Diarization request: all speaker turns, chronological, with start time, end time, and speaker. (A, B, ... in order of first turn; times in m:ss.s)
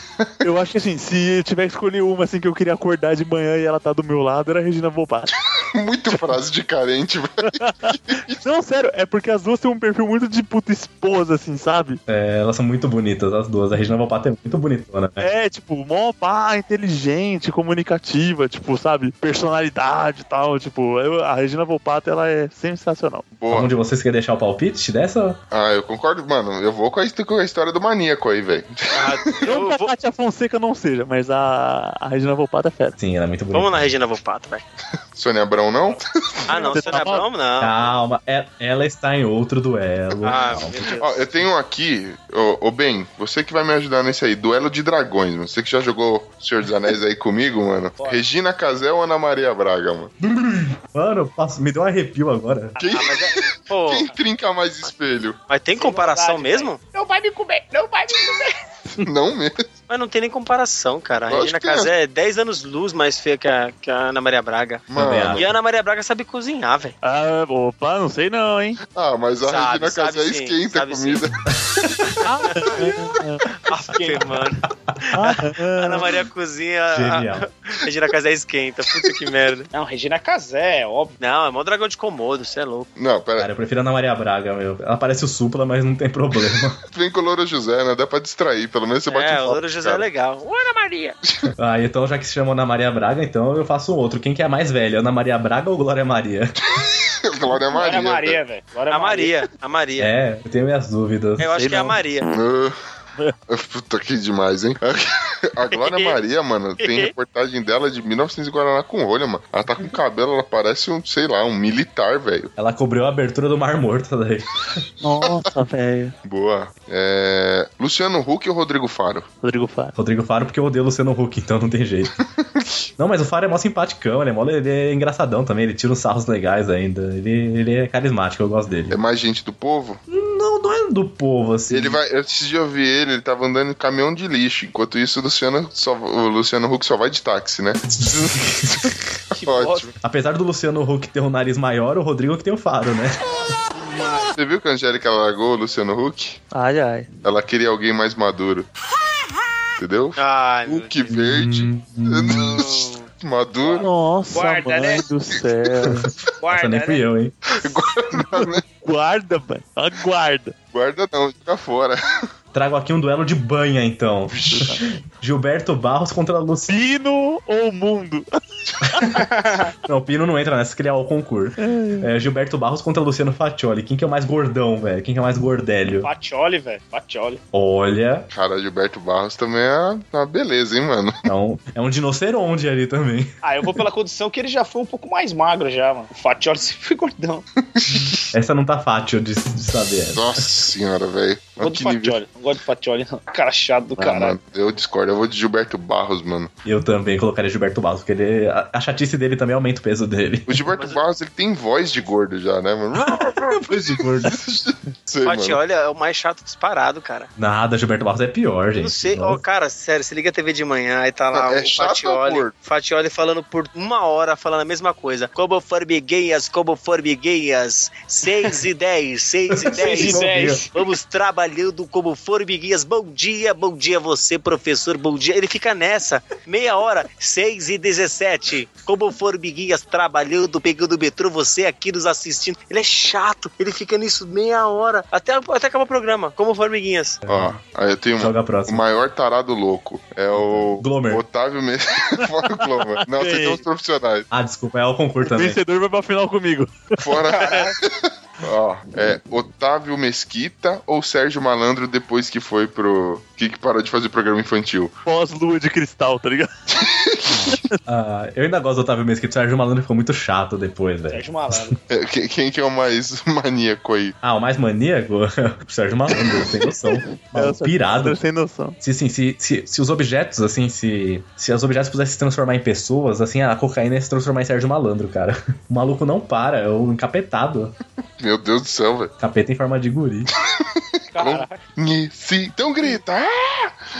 0:00.4-0:05.3 A
0:05.6-0:08.4 B
0:07.6-0:12.0 A
0:12.1-0:15.3 C
0:15.2-0:23.3 A
0:23.3-0:23.7 B
0:23.5-0:25.4 C
0:25.5-0:29.4 B
0:28.9-0:29.9 D
0:29.4-0:33.0 A
0:33.0-0:33.9 C
0:33.5-0:34.6 D
0:35.1-0:36.4 B
0:36.5-0:37.9 D
0:36.5-0:37.2 A
0:37.6-0:40.9 C
0:40.2-0:41.2 D
0:41.0-0:50.1 B
0:48.0-0:48.2 E
0:50.2-0:52.8 C
0:52.8-0:53.1 E
0:52.8-0:55.4 B
0:52.9-0:54.1 D
0:55.5-0:56.8 D
0:55.8-0:58.6 E
0:59.0-0:59.6 B
0:59.9-1:06.9 D
1:01.3-1:01.9 B
1:04.9-1:05.5 B
1:04.9-1:05.5 C
1:07.0-1:08.8 A
1:08.9-1:11.4 B
1:09.4-1:11.3 D
1:11.6-1:12.2 C
1:12.2-1:13.4 A
1:12.4-1:12.9 D
1:13.7-1:19.7 D
1:13.7-1:14.2 E
1:15.1-1:16.2 A
1:16.9-1:17.5 C
1:19.7-1:21.2 E
1:21.2-1:22.9 D
1:23.0-1:23.5 B
1:23.4-1:26.8 C
1:26.9-1:30.0 B
1:29.1-1:31.2 D
1:31.6-1:36.5 C
1:36.8-1:38.4 B
1:37.7-1:39.4 E
1:38.9-1:40.1 D
1:40.0-1:41.5 C
1:41.4-1:42.3 D
1:41.5-1:42.0 A
1:42.3-1:42.8 B
1:43.5-1:52.5 B
1:45.7-1:46.2 D
1:46.8-1:47.1 D
1:52.6-1:54.8 C
1:55.0-1:56.2 A
1:56.2-1:59.3 B
1:59.4-1:59.9 A
2:00.0-2:02.2 C
2:02.2-2:02.9 B
2:03.0-2:09.0 C
2:08.9-2:10.0 B
2:10.1-2:12.0 C
2:11.7-2:19.9 B
2:18.4-2:18.9 C
2:19.3-2:19.9 E
2:20.0-2:23.2 C
2:23.8-2:24.3 E
2:24.3-2:26.4 B
2:26.5-2:27.1 A
2:27.2-2:28.7 B
2:29.8-2:33.9 B
2:30.2-2:30.9 D
2:31.1-2:32.6 C
2:32.7-2:33.0 D
2:33.8-2:36.1 A
2:34.3-2:35.0 E
2:36.4-2:37.0 E
2:36.5-2:37.3 C
2:37.5-2:38.6 B
2:38.2-2:40.5 A
2:40.7-2:42.0 B
2:42.5-2:46.7 C
2:44.3-2:44.7 B
2:44.5-2:44.8 A
2:46.7-2:49.2 A
2:49.3-2:49.6 E
2:49.8-2:56.1 C
2:51.6-2:52.1 A
2:56.0-2:57.4 E
2:57.5-2:58.3 C
2:58.3-3:01.2 B
3:01.2-3:03.3 C
3:03.4-3:07.4 E
3:07.7-3:08.2 B
3:08.3-3:10.5 C
3:10.1-3:12.2 B
3:11.6-3:14.4 E
3:14.0-3:16.5 B
3:16.6-3:20.6 C
3:20.5-3:25.6 B
3:22.9-3:24.4 C
3:25.2-3:27.3 D
3:27.4-3:29.4 C
3:28.8-3:57.2 D
3:31.3-3:32.5 B
3:39.6-3:40.6 C
3:39.7-3:40.8 E
3:57.2-3:57.6 C
3:57.3-4:04.3 B
3:58.2-3:58.8 C
4:00.3-4:01.2 C
4:02.6-4:03.6 A
4:04.3-4:05.6 C
4:05.2-4:07.3 A
4:07.0-4:14.9 B
4:07.3-4:07.7 E
4:15.0-4:16.5 A
4:16.7-4:17.6 B
4:17.9-4:21.8 C
4:21.1-4:21.8 E
4:21.9-4:24.1 B
4:24.2-4:28.2 C
4:26.9-4:28.8 A
4:28.8-4:37.7 C
4:38.2-4:39.1 B
4:39.2-4:40.3 C
4:40.6-4:43.7 B
4:41.1-4:41.6 E